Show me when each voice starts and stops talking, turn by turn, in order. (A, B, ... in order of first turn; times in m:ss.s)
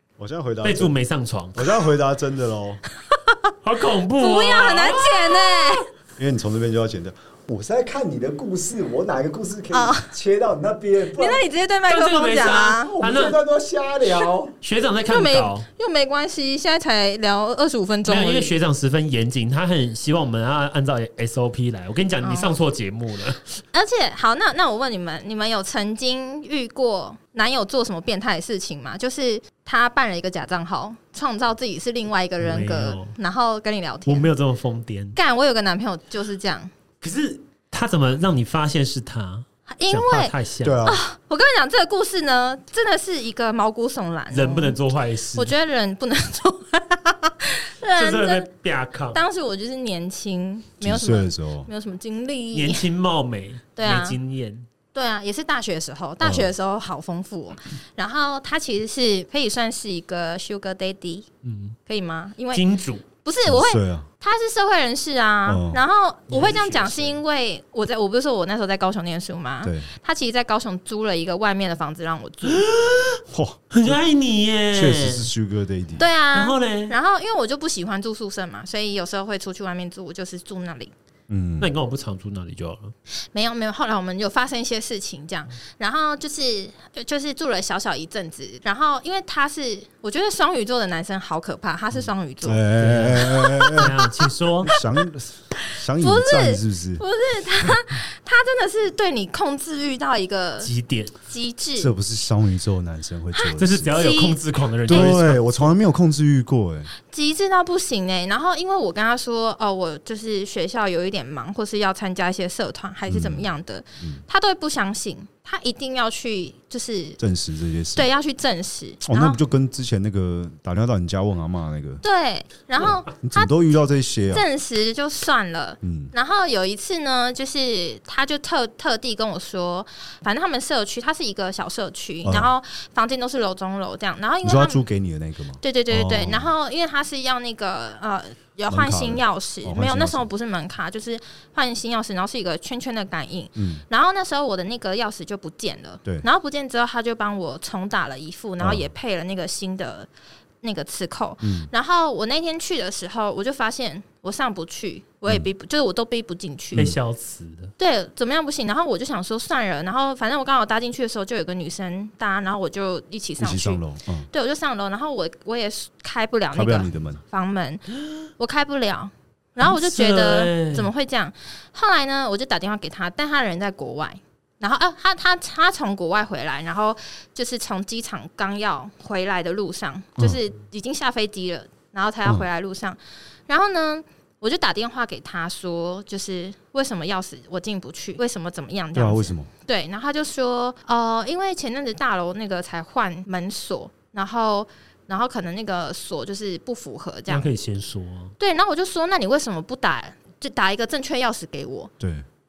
0:00.2-0:01.0 A
0:00.6-0:01.7 B
0:01.6-0:02.8 A
0:03.1-0:03.5 C
0:03.6-0:05.8 B
0:04.1-0:05.9 C
0:06.2-0:11.4 A
0:09.7-0:10.1 C
0:11.2-0:12.9 C
0:11.9-0:13.4 B
0:12.8-0:14.6 A
0:14.6-0:15.7 B
0:15.1-0:18.5 C
0:18.1-0:23.6 B
0:22.2-0:22.6 C
0:23.7-0:34.3 C
0:32.4-0:33.2 B
0:34.1-0:35.2 B
0:35.2-0:36.7 C
0:37.0-0:40.8 B
0:39.7-0:44.8 C
0:40.6-0:41.0 A
0:44.3-0:45.5 B
0:45.4-0:48.5 C
0:48.0-0:49.2 B
0:49.1-0:52.9 C
0:50.8-0:51.7 A
0:52.5-0:54.7 B
0:53.8-0:54.2 C
0:54.9-1:01.3 C
0:56.2-0:56.5 A
1:01.4-1:01.8 B
1:01.9-1:02.6 C
1:02.5-1:03.1 B
1:03.2-1:12.6 C
1:03.4-1:04.1 A
1:05.5-1:05.8 A
1:06.3-1:07.2 B
1:09.6-1:09.9 A
1:12.5-1:13.2 B
1:13.3-1:14.0 A
1:13.7-1:15.3 B
1:14.7-1:16.1 A
1:16.0-1:20.9 C
1:16.3-1:17.0 B
1:21.3-1:21.7 A
1:21.6-1:22.9 B
1:23.3-1:32.6 C
1:32.4-1:33.9 A
1:32.8-1:34.8 B
1:33.2-1:34.0 C
1:34.6-1:37.0 A
1:35.7-1:40.7 C
1:40.6-1:41.1 B
1:41.3-1:41.9 C
1:41.8-1:43.9 A
1:43.3-1:45.2 C
1:43.6-1:45.7 B
1:44.9-1:46.9 A
1:47.1-1:57.2 C
1:53.1-1:53.5 A
1:57.2-1:58.1 A
1:58.0-1:59.4 C
1:59.0-2:02.0 A
2:02.0-2:03.5 C
2:02.8-2:04.4 A
2:04.3-2:14.8 C
2:05.8-2:06.1 A
2:12.2-2:12.5 A
2:14.4-2:16.5 A
2:15.6-2:30.1 C
2:18.7-2:20.3 A
2:23.6-2:23.8 A
2:28.6-2:28.9 A
2:30.6-2:36.9 C
2:31.4-2:31.7 A
2:36.7-2:37.7 B
2:37.8-2:47.8 C
2:43.4-2:44.3 A
2:46.5-2:47.2 A
2:48.4-3:17.5 C
2:49.6-2:50.9 B
3:09.0-3:09.5 A
3:17.3-3:18.4 B
3:18.4-3:21.9 C
3:22.0-3:22.3 A